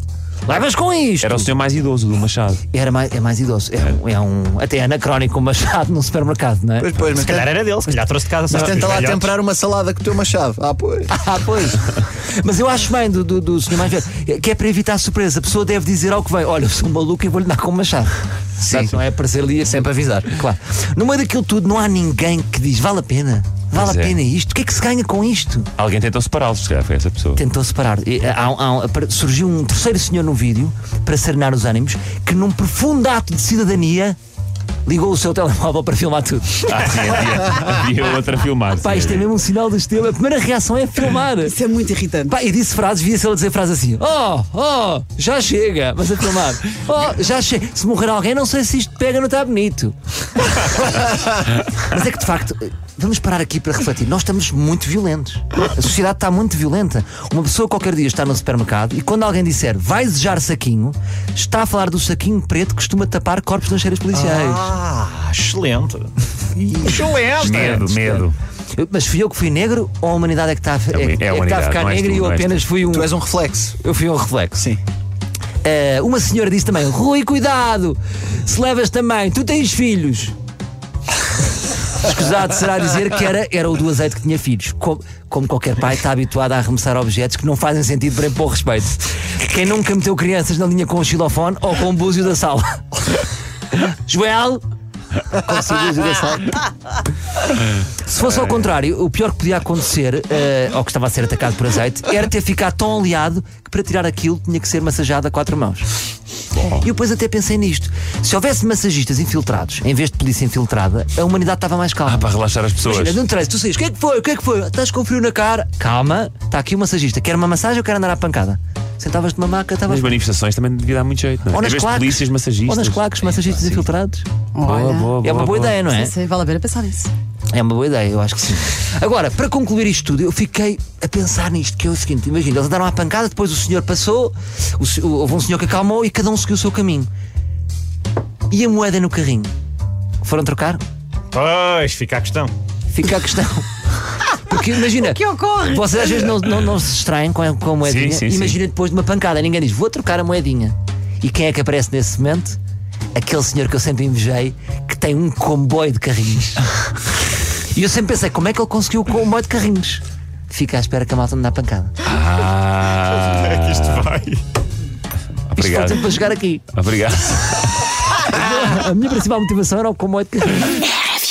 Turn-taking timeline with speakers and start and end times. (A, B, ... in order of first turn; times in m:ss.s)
0:00.4-0:01.5 A
0:01.2-0:02.6 B
0:02.7-0:06.9 A
0:06.8-0:07.5 C
0:07.1-0:09.3 D
0:08.5-0:11.1 C
0:11.1-0:25.7 A
0:18.6-0:19.0 C
0:19.6-0:20.3 C
0:23.7-0:24.2 B
0:25.8-0:27.4 B
0:27.4-0:34.2 A
0:34.8-0:36.7 A
0:36.6-0:39.3 B
0:38.8-0:41.6 A
0:41.5-0:42.3 E
0:42.3-1:04.7 A
1:04.2-1:06.0 D
1:06.6-1:07.2 C
1:06.8-1:07.8 D
1:07.4-1:08.3 B
1:07.6-1:13.1 A
1:10.9-1:12.7 B
1:12.9-1:13.8 C
1:13.8-1:14.7 A
1:15.6-1:20.3 A
1:22.0-1:33.2 A
1:33.7-1:34.6 A
1:35.4-1:36.4 A
1:35.5-1:36.2 C
1:38.0-1:45.9 A
1:46.5-1:46.8 B
1:46.7-2:00.1 A
1:52.0-1:53.2 B
1:59.9-2:03.8 B
2:01.5-2:04.3 A
2:04.5-2:05.2 E
2:04.6-2:05.8 B
2:05.2-2:06.1 A
2:05.8-2:07.1 E
2:07.5-2:17.1 A
2:18.5-2:19.5 A
2:20.2-2:20.8 A
2:21.3-2:22.5 D
2:22.9-2:23.7 A
2:24.2-2:32.6 A
2:25.0-2:25.9 E
2:27.8-2:28.6 B
2:33.1-2:36.7 A
2:37.7-2:41.9 A
2:42.0-2:44.4 B
2:45.5-2:46.2 B
2:45.6-2:46.6 A
2:46.7-2:47.9 B
2:48.1-2:50.9 A